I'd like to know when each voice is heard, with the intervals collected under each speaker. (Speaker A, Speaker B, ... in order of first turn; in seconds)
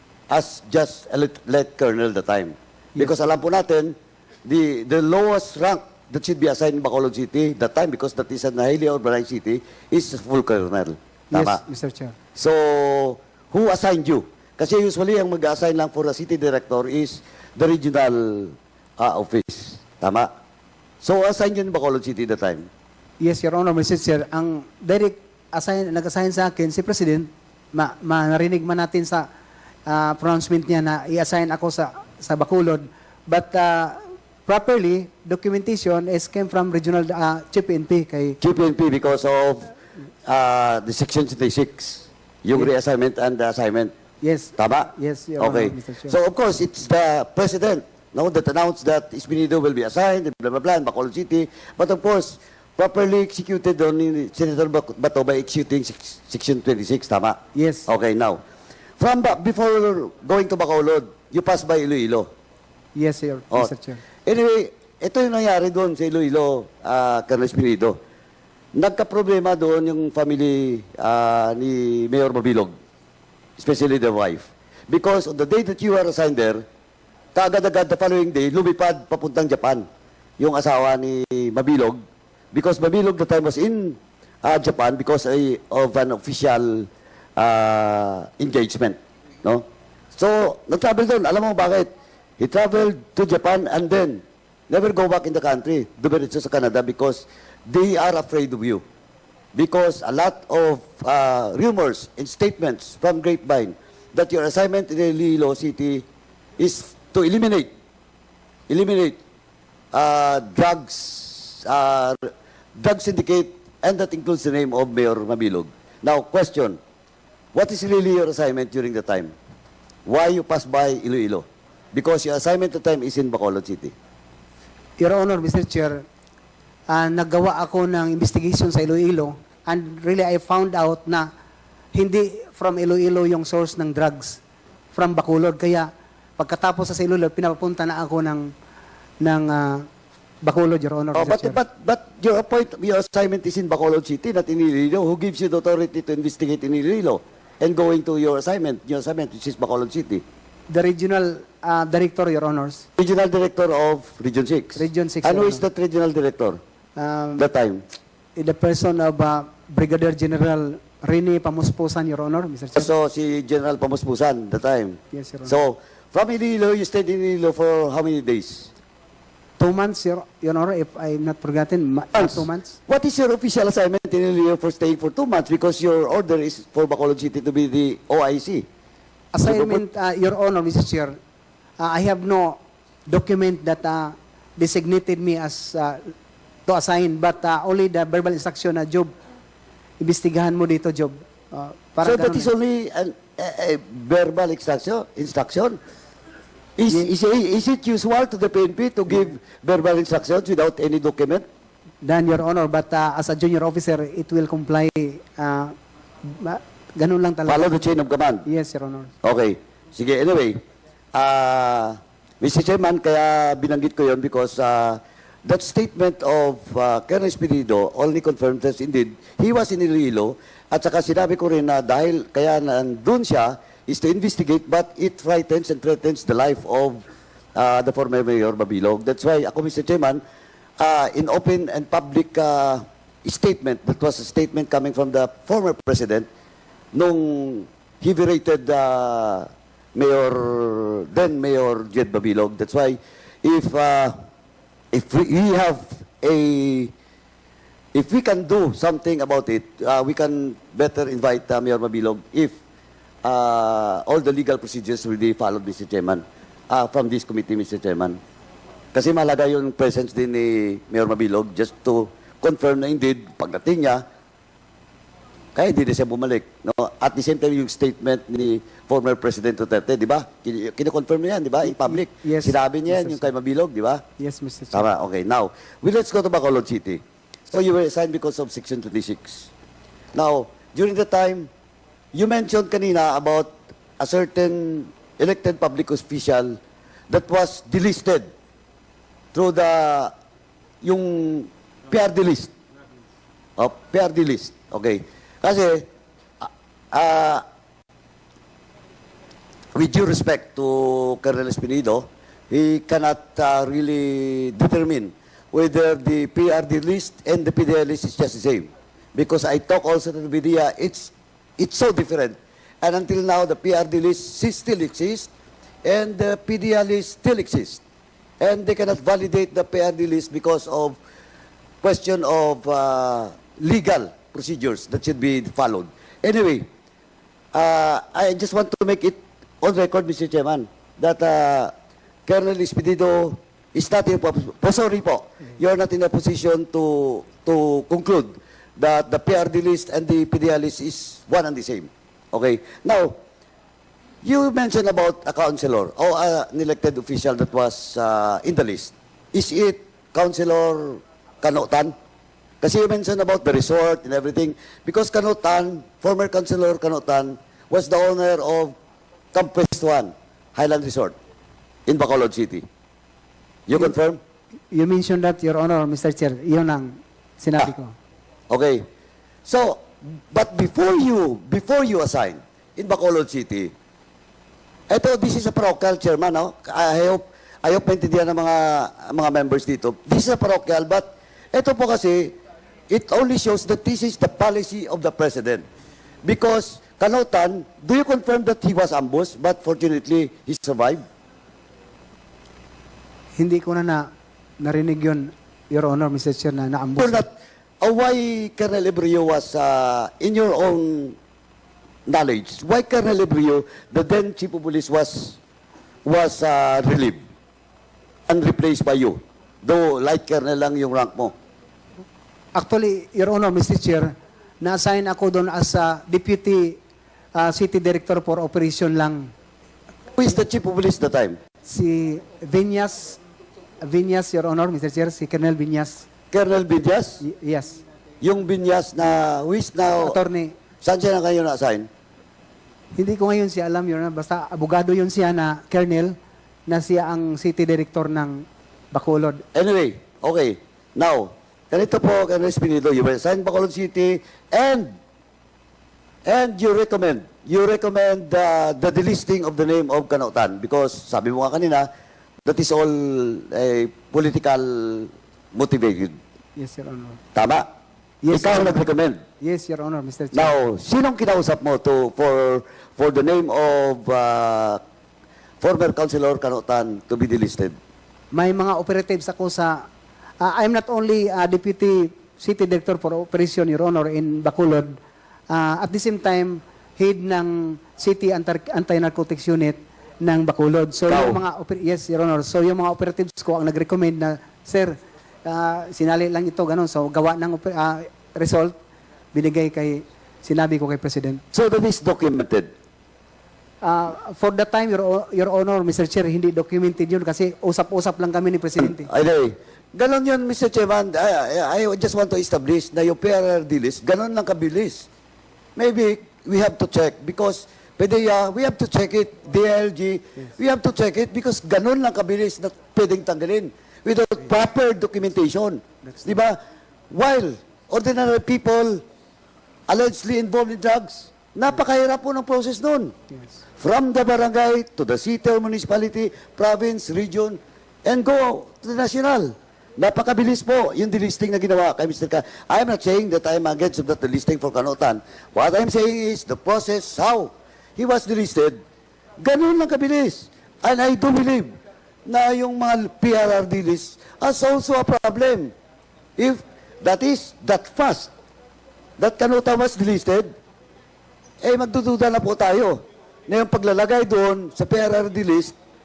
Speaker A: 0.3-11.6, 12.3-20.3, 21.0-22.7, 38.4-39.7, 40.2-43.9, 44.6-58.4, 59.0-62.3, 64.2-68.0, 68.7-72.7, 73.6-76.6, 77.3-79.9, 80.4-82.0, 82.5-98.8, 99.5-106.0, 106.6-107.7, 108.7-109.2, 109.9-116.8, 117.5-119.3, 120.1-123.9, 141.1-150.2, 153.0-156.6, 157.4-157.8, 162.8-168.7, 172.1-178.7, 179.4-179.8, 192.0-195.8, 196.8-201.4, 207.4-208.4, 209.2-210.6, 211.1-227.0, 227.6-230.2, 230.8-236.3, 236.9-244.2, 244.9-246.9, 247.9-252.5, 253.2-258.2, 258.9-264.0, 265.5-274.0, 274.7-279.5, 280.1-281.5, 282.1-286.6, 287.1-288.3, 289.3-290.1, 290.8-292.5, 293.6-295.9, 296.4-297.4, 299.7-315.3, 315.8-317.8, 318.4-321.0, 321.8-326.7, 327.5-331.7, 332.2-343.2, 344.2-351.9, 352.6-358.8, 359.3-361.1, 361.9-362.6, 363.7-364.2, 368.5-368.9, 369.4-373.7, 374.9-382.4, 382.9-385.6, 386.2-391.0, 397.0-401.1, 402.1-405.4, 406.1-407.2, 408.3-411.3, 420.2-421.4, 426.3-427.2, 428.2-430.2, 430.8-431.9, 439.5-444.9, 446.2-451.9, 452.4-456.2, 457.3-457.7, 458.3-459.2, 460.3-464.8, 465.6-467.8, 481.1-481.4, 491.5-492.7, 498.8-505.1, 505.8-516.6, 517.1-519.0, 519.9-523.1, 523.8-538.8, 539.4-541.7, 542.2-545.7, 546.4-548.3, 549.2-550.5, 551.6-555.7
Speaker B: 11.3-12.1, 23.2-29.3, 29.9-38.4, 44.2-46.1, 57.5-57.9, 63.0-64.0, 125.0-126.0, 126.9-131.3, 131.9-134.4, 134.9-138.5, 139.2-139.9, 140.4-141.6, 150.7-152.8, 154.7-155.6, 157.0-157.4, 158.3-162.9, 165.1-165.6, 169.6-172.8, 179.3-181.2, 181.8-186.1, 186.7-189.1, 190.0-192.5, 202.0-207.7, 208.4-209.1, 271.6-273.3, 274.2-274.9, 364.7-367.9, 393.4-397.2, 412.5-416.8, 417.3-419.3, 421.6-423.2, 423.8-426.1, 427.2-427.8, 429.9-430.5, 432.9-439.4, 456.6-457.2, 458.2-458.8, 459.4-460.5, 468.3-469.9, 470.4-474.9, 475.5-488.7, 489.3-491.4, 493.8-499.1